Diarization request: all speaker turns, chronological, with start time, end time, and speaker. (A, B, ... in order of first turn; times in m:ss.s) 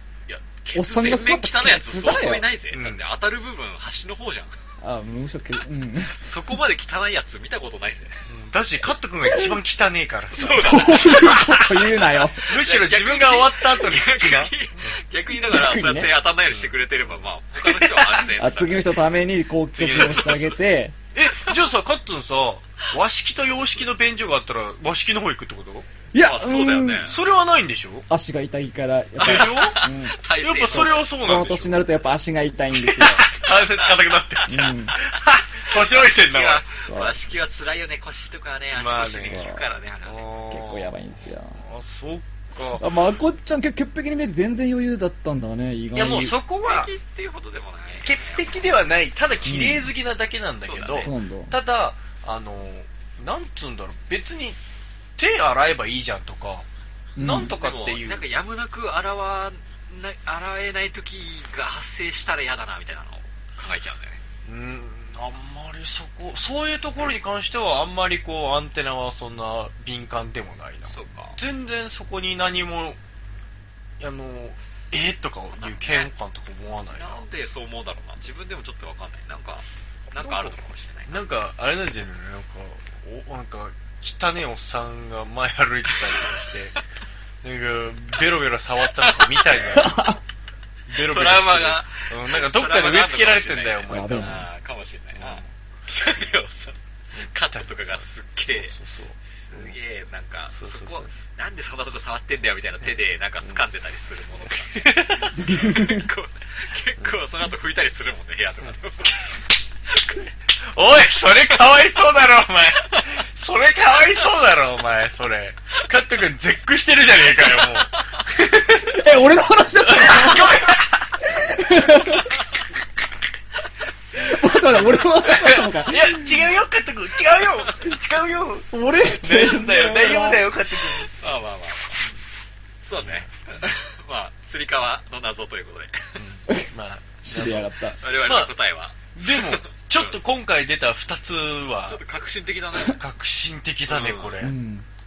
0:00.3-0:04.6 A
0:00.7-0:02.5 B
0:02.7-0:03.0 C
0:04.8-0:06.3 B
0:06.2-0:08.2 A
0:08.3-0:11.6 C
0:10.3-0:19.0 A
0:10.6-0:12.5 B
0:12.4-0:15.0 C
0:15.3-0:16.1 B
0:16.5-0:18.3 C
0:18.4-0:21.0 B
0:19.7-0:20.5 C
0:20.0-0:20.5 A
0:21.1-0:25.9 C
0:26.1-0:27.1 B
0:26.2-0:27.2 A
0:27.1-0:28.1 C
0:28.1-0:33.3 B
0:29.2-0:31.0 A
0:29.2-0:29.8 C
0:30.4-0:31.8 C
0:32.7-0:36.6 C
0:34.5-0:35.0 B
0:35.7-0:40.3 A
0:36.9-0:37.2 B
0:38.7-0:39.4 C
0:39.1-0:39.6 B
0:40.0-0:42.8 C
0:40.5-0:41.6 B
0:42.8-0:46.3 B
0:45.9-0:46.9 C
0:46.6-0:48.7 A
0:48.0-0:54.6 C
0:49.3-0:49.6 A
0:49.4-0:49.9 B
0:50.6-0:51.1 A
0:51.0-0:51.5 B
0:55.2-0:56.7 C
0:57.2-0:57.5 B
0:57.2-0:58.3 C
0:57.4-1:04.2 A
1:04.4-1:13.0 C
1:10.9-1:11.4 A
1:14.0-1:17.2 C
1:15.6-1:16.1 A
1:16.9-1:21.3 A
1:20.2-1:20.6 C
1:21.1-1:26.8 C
1:25.9-1:26.3 A
1:27.4-1:30.1 C
1:29.8-1:30.2 B
1:30.9-1:34.4 C
1:31.0-1:38.7 A
1:33.9-1:34.5 B
1:35.2-1:35.5 C
1:37.1-1:39.8 C
1:39.5-1:49.3 A
1:40.5-1:41.1 C
1:44.5-1:45.4 C
1:45.4-1:46.1 B
1:50.7-1:59.1 C
1:52.8-1:53.2 A
1:57.4-1:58.2 A
1:58.8-2:02.4 B
1:59.8-2:01.1 C
2:04.2-2:06.4 B
2:04.8-2:11.1 C
2:08.7-2:10.5 B
2:11.2-2:12.1 A
2:12.8-2:16.2 A
2:13.0-2:13.3 C
2:16.2-2:18.5 C
2:17.2-2:18.0 B
2:18.0-2:20.2 A
2:19.1-2:22.0 C
2:21.9-2:23.0 A
2:22.8-2:24.6 C
2:23.9-2:24.4 A
2:24.4-2:24.8 B